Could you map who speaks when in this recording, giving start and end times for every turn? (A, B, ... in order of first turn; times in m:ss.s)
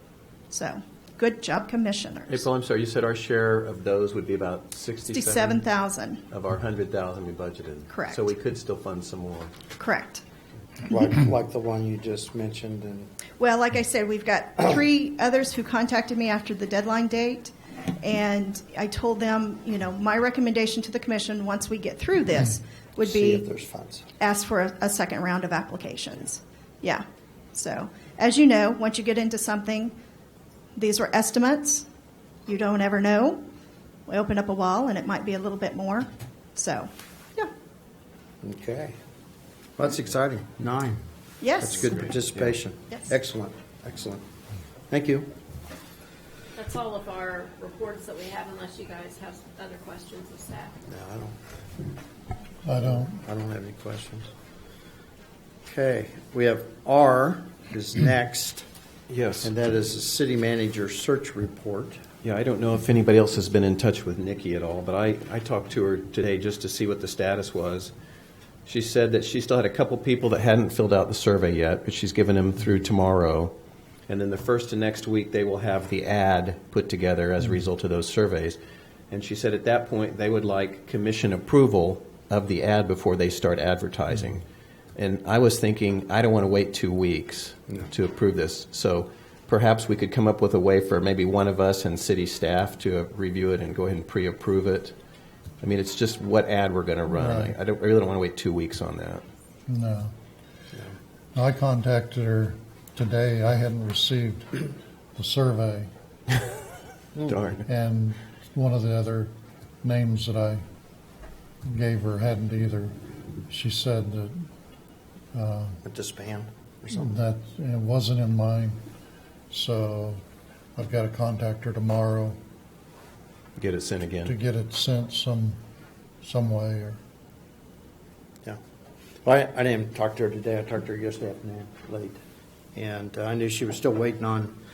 0:00.5-0:02.4 A
0:02.3-0:05.6 B
0:05.1-0:06.2 A
0:06.3-0:09.5 B
0:07.9-0:08.2 A
0:09.8-0:10.2 A
0:10.9-0:13.1 C
0:13.4-0:23.5 A
0:23.0-0:24.0 C
0:24.2-0:29.9 A
0:30.7-0:31.8 A
0:32.4-0:33.4 A
0:34.1-0:37.5 A
0:38.4-0:38.9 C
0:39.8-0:41.0 C
0:41.4-0:42.1 A
0:41.6-0:44.2 C
0:41.8-0:42.6 B
0:44.9-0:45.3 C
0:46.6-0:50.7 D
0:50.9-0:51.4 C
0:52.6-0:53.2 E
0:52.8-0:54.3 C
0:55.6-0:58.6 C
0:59.1-0:59.5 B
0:59.4-1:02.0 C
1:02.2-1:07.9 B
1:08.6-1:13.5 B
1:14.1-1:18.6 B
1:19.1-1:24.4 B
1:25.0-1:34.9 B
1:35.6-1:39.2 B
1:37.1-1:37.6 E
1:39.7-1:40.1 E
1:41.3-1:44.6 E
1:45.2-1:45.9 E
1:47.2-1:47.6 B
1:47.6-1:49.3 E
1:49.8-1:50.6 E
1:51.7-1:53.0 E
1:53.5-1:54.5 E
1:55.3-1:55.8 E
1:55.8-1:57.2 C
1:56.9-1:58.8 E
1:59.5-2:00.2 E
2:00.7-2:02.4 E
2:03.6-2:04.3 B
2:04.2-2:05.6 E
2:06.2-2:07.0 E
2:09.2-2:12.2 C
2:12.7-2:14.6 C